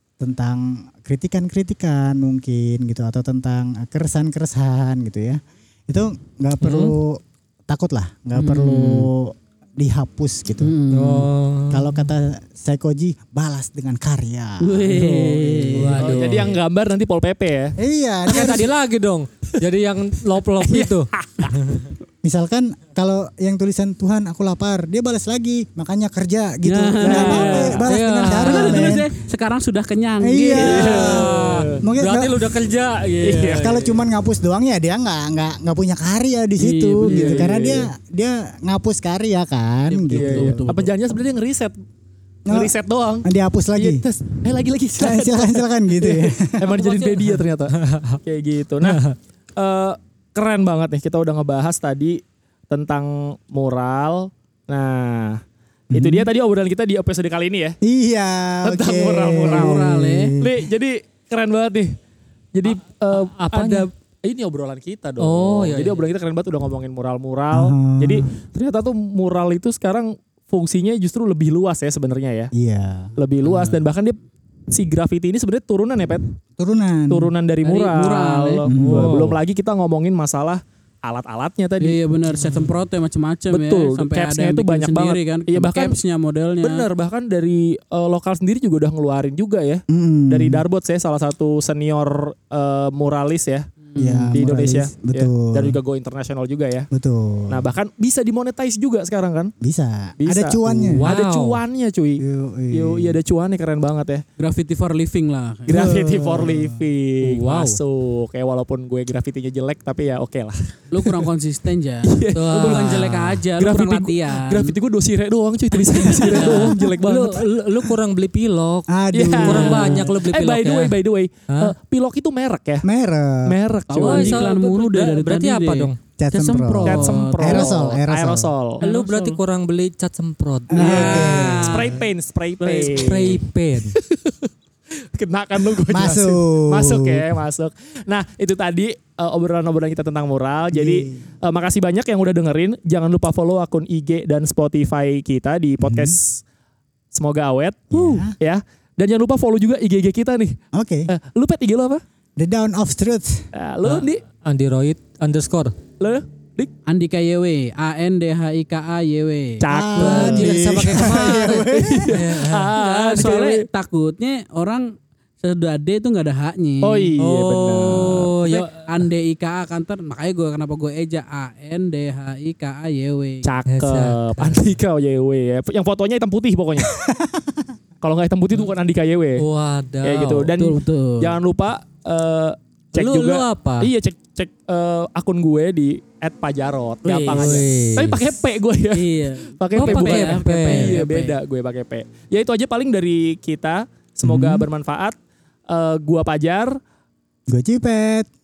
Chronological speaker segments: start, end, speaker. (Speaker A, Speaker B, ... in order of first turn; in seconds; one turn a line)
Speaker A: 0.2-10.8
Speaker B: 6.6-7.0
Speaker C: 8.3-9.1
Speaker C: 10.6-11.3
Speaker B: 10.9-11.9
Speaker A: 11.7-16.6
Speaker C: 14.6-16.0
Speaker B: 15.7-16.6
Speaker D: 15.9-17.8
Speaker A: 17.8-18.7
Speaker B: 18.3-21.9
Speaker D: 20.6-21.6
Speaker A: 22.2-29.1
Speaker C: 26.6-31.3
Speaker B: 27.0-29.1
Speaker A: 30.2-32.5
Speaker D: 30.6-31.8
Speaker B: 30.8-33.9
Speaker D: 33.2-34.0
Speaker A: 33.4-40.6
Speaker C: 36.6-37.5
Speaker D: 37.1-37.9
Speaker C: 39.9-40.9
Speaker D: 40.1-41.7
Speaker A: 42.5-44.0
Speaker D: 42.5-49.0
Speaker A: 45.0-46.7
Speaker B: 46.7-48.2
Speaker B: 48.8-49.1
Speaker D: 49.6-52.2
Speaker D: 52.7-55.4
Speaker A: 55.9-56.3
Speaker D: 55.9-57.8
Speaker A: 57.8-60.7
Speaker D: 58.6-62.0
Speaker C: 59.5-60.4
Speaker D: 62.5-72.5
Speaker B: 63.1-63.9
Speaker B: 65.2-66.0
Speaker A: 67.5-68.3
Speaker A: 72.5-73.1
Speaker D: 73.2-74.2
Speaker C: 73.4-73.8
Speaker D: 74.7-76.2
Speaker A: 76.6-77.3
Speaker D: 77.1-82.0
Speaker C: 77.6-78.7
Speaker A: 78.7-79.4
Speaker B: 78.8-79.4
Speaker C: 81.8-86.9
Speaker B: 82.3-82.7
Speaker D: 83.5-86.0
Speaker D: 86.6-93.7
Speaker A: 89.9-90.6
Speaker C: 93.9-94.4
Speaker A: 94.0-95.8
Speaker D: 94.3-96.9
Speaker A: 96.9-97.7
Speaker D: 97.5-99.5
Speaker A: 99.6-101.1
Speaker D: 100.2-104.2
Speaker B: 100.9-101.6
Speaker A: 102.2-103.2
Speaker C: 104.4-105.7
Speaker A: 105.7-106.8
Speaker D: 105.7-111.3
Speaker B: 107.2-107.8
Speaker C: 110.9-114.8
Speaker D: 112.1-113.0
Speaker B: 112.3-113.4
Speaker D: 113.6-117.5
Speaker A: 116.0-116.6
Speaker B: 116.2-121.0
Speaker A: 118.9-120.0
Speaker D: 119.1-122.9
Speaker A: 122.8-123.5
Speaker D: 123.5-124.5
Speaker C: 123.9-127.7
Speaker B: 124.0-126.0
Speaker A: 126.2-128.5
Speaker D: 126.9-128.8
Speaker C: 128.8-129.4
Speaker B: 128.8-131.5
Speaker A: 130.7-131.9
Speaker C: 130.7-132.0
Speaker D: 131.0-134.5
Speaker C: 132.6-133.1
Speaker B: 132.9-134.0
Speaker D: 135.1-146.4
Speaker A: 135.9-137.3
Speaker A: 140.7-141.2
Speaker A: 145.8-146.2
Speaker D: 147.1-150.6
Speaker A: 147.9-148.3
Speaker A: 150.7-151.1
Speaker D: 151.1-152.0
Speaker A: 152.4-153.5
Speaker D: 153.5-154.2
Speaker B: 153.8-155.8
Speaker D: 156.0-156.7
Speaker C: 156.9-159.6
Speaker D: 159.6-163.6
Speaker A: 159.7-162.1
Speaker B: 160.0-163.3
Speaker C: 162.7-167.1
Speaker D: 166.8-168.6
Speaker B: 167.2-168.8
Speaker C: 168.0-173.5
Speaker D: 173.4-176.9
Speaker B: 173.7-174.7
Speaker A: 176.8-177.7
Speaker D: 178.0-179.4
Speaker B: 179.4-180.5
Speaker D: 180.0-195.2
Speaker C: 180.6-181.3
Speaker B: 182.9-183.9
Speaker C: 187.0-187.7
Speaker B: 187.2-188.3
Speaker C: 188.9-191.4
Speaker B: 189.8-191.0
Speaker A: 194.2-194.7
Speaker D: 195.7-196.8
Speaker A: 197.5-198.3